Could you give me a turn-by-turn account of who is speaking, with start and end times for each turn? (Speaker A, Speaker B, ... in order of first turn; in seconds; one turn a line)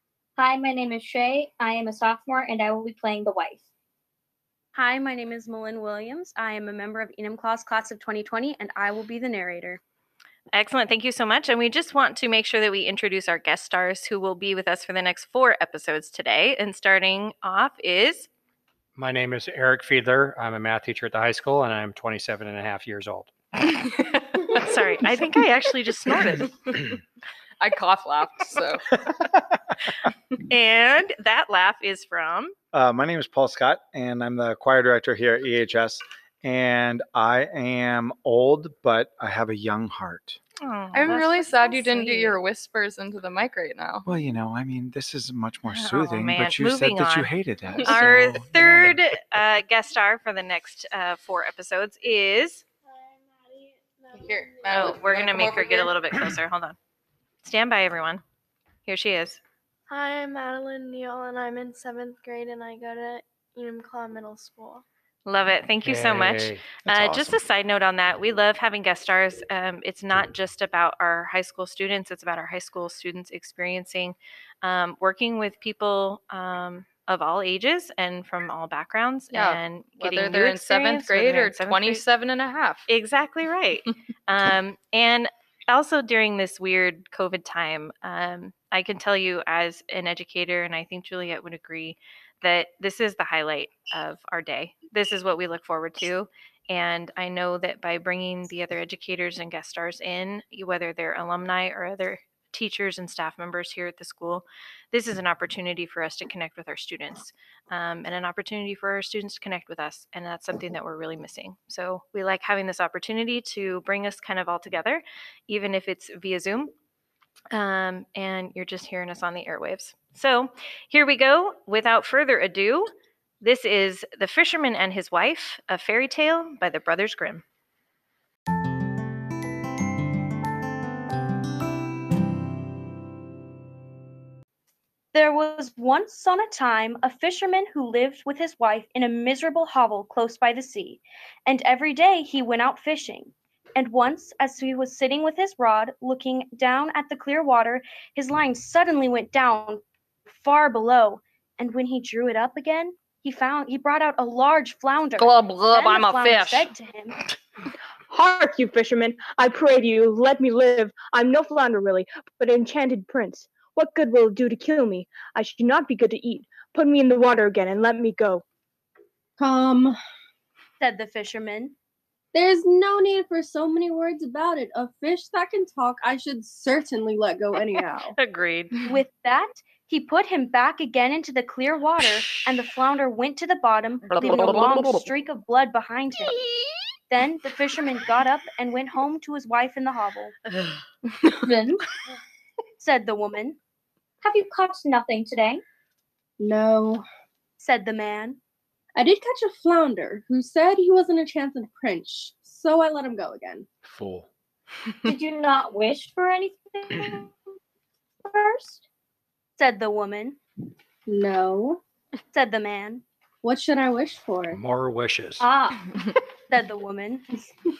Speaker A: 0.4-3.6
Speaker B: 4.7-9.8
Speaker C: 10.5-18.3
Speaker D: 19.0-23.3
Speaker E: 24.1-24.7
Speaker C: 24.4-26.5
Speaker E: 27.6-28.8
Speaker C: 30.4-32.5
Speaker F: 32.7-40.4
Speaker C: 40.6-42.4
Speaker E: 40.9-44.1
Speaker F: 44.0-48.9
Speaker C: 45.7-52.6
Speaker G: 52.9-55.8
Speaker E: 54.1-56.0
Speaker C: 54.7-56.8
Speaker C: 57.4-58.2
Speaker C: 58.9-59.4
Speaker G: 59.9-64.8
Speaker C: 65.2-82.0
Speaker D: 65.8-66.8
Speaker F: 66.9-67.3
Speaker E: 79.3-82.9
Speaker C: 82.9-116.7
Speaker C: 117.5-122.9
Speaker C: 123.4-127.4
Speaker B: 135.1-157.2
Speaker E: 155.2-156.7
Speaker H: 158.1-168.4
Speaker I: 169.4-170.0
Speaker B: 170.8-171.7
Speaker I: 172.3-178.2
Speaker C: 178.1-178.8
Speaker B: 178.9-186.4
Speaker E: 184.1-185.1
Speaker B: 187.1-190.3
Speaker A: 191.4-191.8
Speaker B: 192.8-193.6
Speaker A: 194.2-195.6
Speaker I: 196.4-197.0
Speaker B: 197.6-198.4
Speaker I: 198.9-203.7
Speaker F: 203.8-204.3
Speaker A: 205.0-207.3
Speaker A: 208.2-208.8
Speaker B: 209.6-210.4
Speaker I: 211.1-211.8
Speaker B: 212.3-213.0
Speaker I: 213.4-214.6
Speaker D: 214.5-215.4
Speaker A: 215.4-215.8
Speaker B: 216.5-217.3